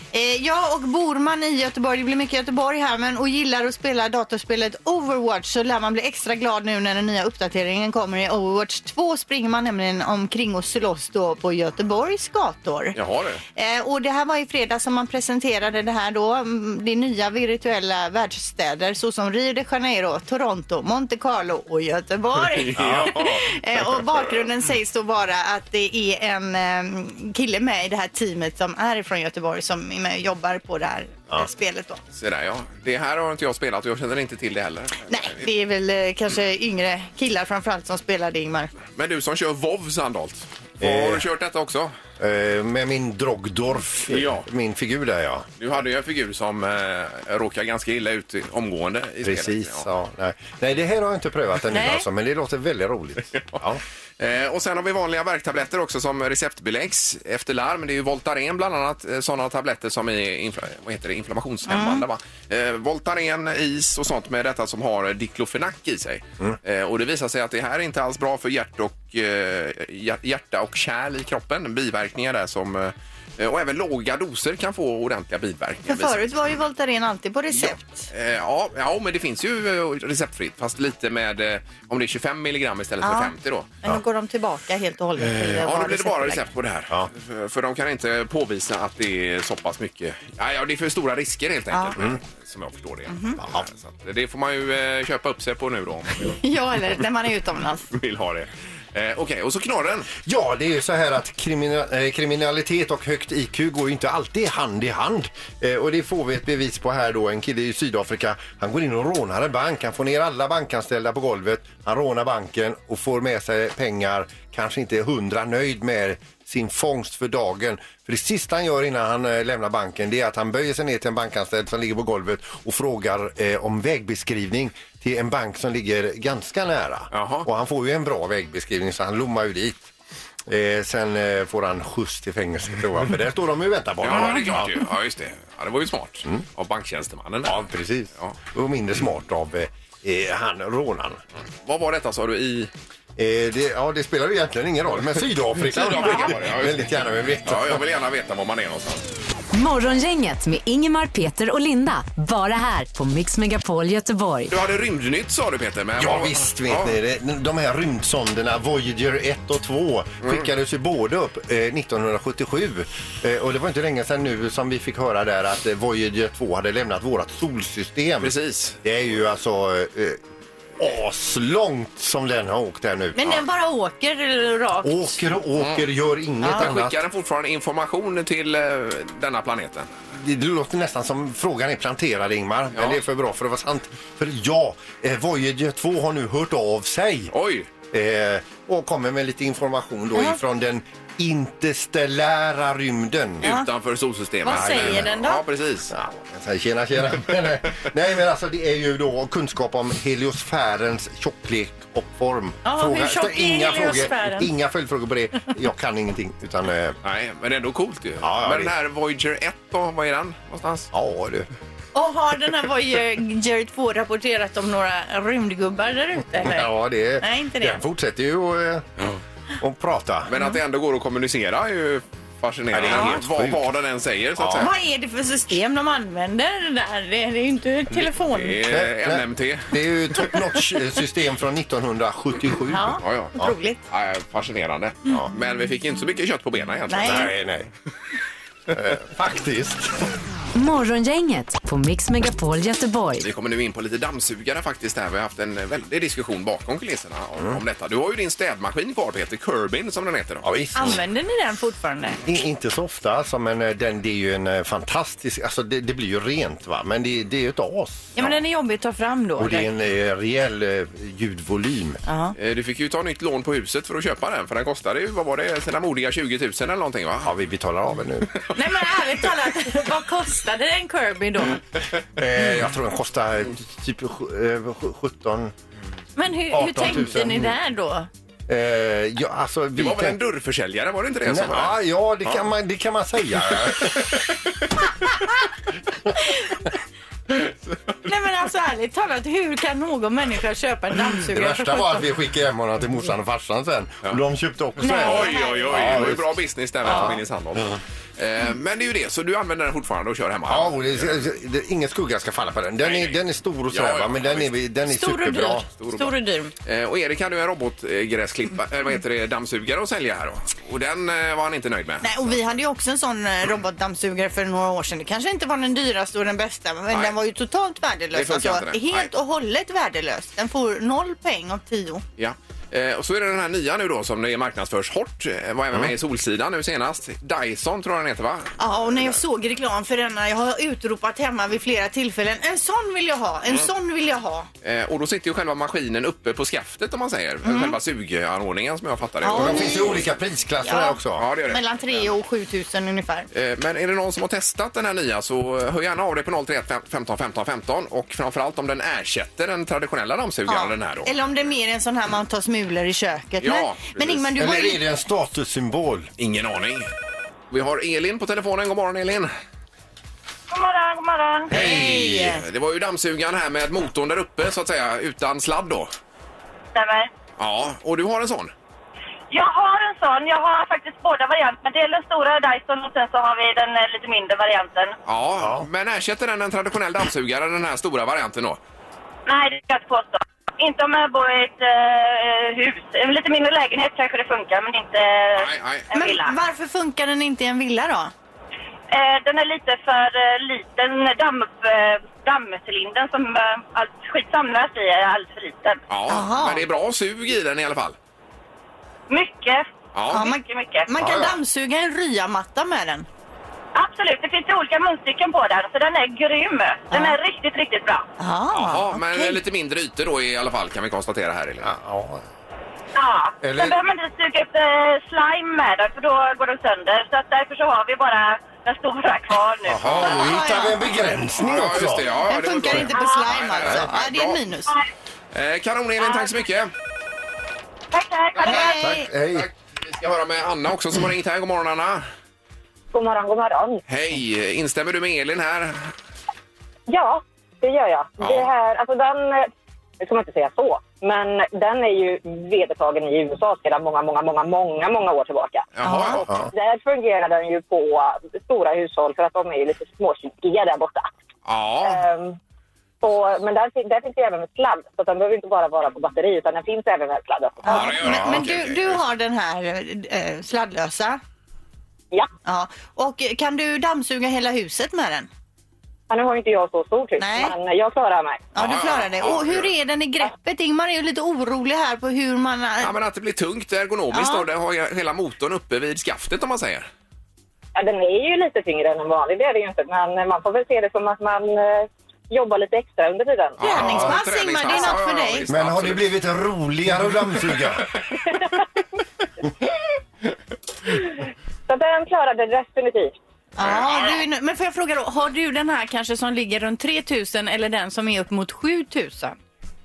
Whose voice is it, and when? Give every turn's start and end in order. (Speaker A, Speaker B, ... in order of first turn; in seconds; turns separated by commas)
Speaker A: 0.1-13.0, Speaker B: 12.9-13.4, Speaker A: 13.6-32.0, Speaker B: 22.4-24.0, Speaker C: 22.8-23.1, Speaker B: 32.1-35.5, Speaker A: 35.1-38.7, Speaker B: 38.9-41.9, Speaker C: 40.8-41.2, Speaker C: 42.2-45.5, Speaker B: 44.1-44.5, Speaker B: 45.6-49.9, Speaker C: 49.2-53.8, Speaker A: 51.7-52.0, Speaker B: 54.2-76.3, Speaker A: 61.7-62.0, Speaker A: 75.9-78.1, Speaker B: 77.5-83.8, Speaker A: 83.0-86.4, Speaker B: 85.2-96.3, Speaker A: 93.1-93.4, Speaker A: 96.3-97.9, Speaker B: 97.9-100.1, Speaker C: 100.2-129.9, Speaker B: 127.1-127.5, Speaker C: 130.5-134.8, Speaker B: 134.0-137.6, Speaker C: 137.4-141.2, Speaker B: 141.6-142.7, Speaker C: 143.2-147.8, Speaker B: 145.6-149.0, Speaker D: 149.5-154.5, Speaker B: 154.5-156.9, Speaker C: 156.0-170.2, Speaker B: 160.2-160.5, Speaker B: 168.2-168.8, Speaker C: 170.8-173.4, Speaker A: 173.1-175.2, Speaker C: 174.8-177.0, Speaker B: 175.6-175.8, Speaker A: 176.4-176.7, Speaker B: 176.5-179.9, Speaker C: 180.1-187.3, Speaker B: 182.7-183.0, Speaker B: 187.3-187.7, Speaker C: 187.9-193.5, Speaker B: 193.4-195.9, Speaker A: 193.4-193.7, Speaker A: 194.4-195.4, Speaker C: 194.5-195.1, Speaker C: 195.9-207.0, Speaker A: 202.6-204.5, Speaker B: 207.0-210.9, Speaker C: 208.2-208.7, Speaker C: 210.9-211.5, Speaker A: 211.9-217.8, Speaker C: 216.4-218.9, Speaker C: 219.6-220.3, Speaker B: 220.3-224.7, Speaker C: 222.7-223.7, Speaker C: 224.4-224.7, Speaker A: 224.6-228.6, Speaker B: 228.2-229.8, Speaker C: 228.7-233.5, Speaker A: 232.7-233.8, Speaker B: 233.0-233.4, Speaker B: 233.9-237.3, Speaker A: 236.9-237.3, Speaker C: 237.0-237.7, Speaker C: 238.7-239.9, Speaker D: 240.5-243.3, Speaker B: 243.2-250.5, Speaker C: 250.4-251.0, Speaker A: 250.7-252.2, Speaker C: 252.2-258.4, Speaker A: 258.1-259.7, Speaker C: 259.4-262.0, Speaker A: 262.1-262.3, Speaker B: 262.4-267.3, Speaker C: 267.2-268.3, Speaker A: 268.5-271.6, Speaker C: 272.1-275.5, Speaker A: 276.1-278.1, Speaker C: 276.5-277.6, Speaker C: 278.5-280.2, Speaker B: 279.8-282.5, Speaker C: 281.3-284.1, Speaker B: 283.6-284.3, Speaker A: 288.0-292.1, Speaker C: 291.3-296.4, Speaker A: 294.8-295.9, Speaker B: 294.8-301.1, Speaker A: 296.9-297.1, Speaker C: 300.5-305.7, Speaker B: 302.8-303.2, Speaker B: 303.7-304.6, Speaker A: 304.9-306.5, Speaker B: 305.8-312.5, Speaker A: 312.0-322.0, Speaker B: 316.9-317.2, Speaker B: 318.1-319.1, Speaker B: 322.2-329.2, Speaker A: 328.6-334.5, Speaker B: 334.6-340.0, Speaker A: 337.4-337.8, Speaker A: 339.2-340.0, Speaker C: 339.3-341.3, Speaker A: 340.6-343.3, Speaker B: 341.1-342.1, Speaker B: 343.3-351.1, Speaker A: 350.5-354.8, Speaker B: 353.4-354.3, Speaker C: 354.4-356.1, Speaker B: 356.2-356.9, Speaker B: 357.5-359.3, Speaker E: 360.5-361.5, Speaker A: 361.5-362.4, Speaker B: 361.5-365.9, Speaker E: 366.7-367.1, Speaker B: 367.4-368.5, Speaker E: 369.3-374.9, Speaker B: 375.1-378.6, Speaker C: 375.4-375.7, Speaker E: 379.2-386.3, Speaker B: 385.3-385.9, Speaker A: 385.9-388.1, Speaker E: 388.9-395.8, Speaker B: 395.9-397.9, Speaker A: 396.1-396.6, Speaker E: 399.1-400.9, Speaker B: 399.9-400.3, Speaker A: 400.1-403.1, Speaker C: 401.0-401.3, Speaker E: 403.7-408.1, Speaker A: 406.9-407.2, Speaker A: 408.2-409.4, Speaker B: 408.5-411.7, Speaker C: 411.6-412.2, Speaker E: 412.9-419.9, Speaker C: 413.4-413.8, Speaker C: 419.7-422.1, Speaker B: 419.8-420.4, Speaker A: 420.0-420.7, Speaker B: 421.4-424.4, Speaker A: 422.1-424.7, Speaker E: 422.9-423.3, Speaker B: 425.3-426.7, Speaker E: 427.9-428.8, Speaker A: 428.4-429.0, Speaker C: 428.4-429.5, Speaker B: 429.3-432.1, Speaker F: 432.9-433.8, Speaker B: 433.9-435.9, Speaker F: 436.9-445.6, Speaker B: 438.2-438.5, Speaker B: 445.7-446.3, Speaker A: 445.8-446.2, Speaker C: 446.2-446.5, Speaker F: 446.5-451.1, Speaker B: 451.4-452.0, Speaker F: 451.8-452.4, Speaker F: 453.0-457.8, Speaker B: 457.6-459.0, Speaker A: 457.6-461.2, Speaker C: 458.1-458.4, Speaker A: 462.4-465.3, Speaker F: 466.1-468.5, Speaker A: 467.2-467.6, Speaker A: 468.5-472.9, Speaker B: 468.5-469.7, Speaker B: 472.8-476.9, Speaker A: 474.1-474.4, Speaker F: 477.7-483.6, Speaker A: 483.6-485.4, Speaker B: 483.6-486.0, Speaker C: 483.8-484.1, Speaker C: 485.5-487.9, Speaker F: 491.7-493.2, Speaker A: 493.6-499.4, Speaker B: 493.6-494.3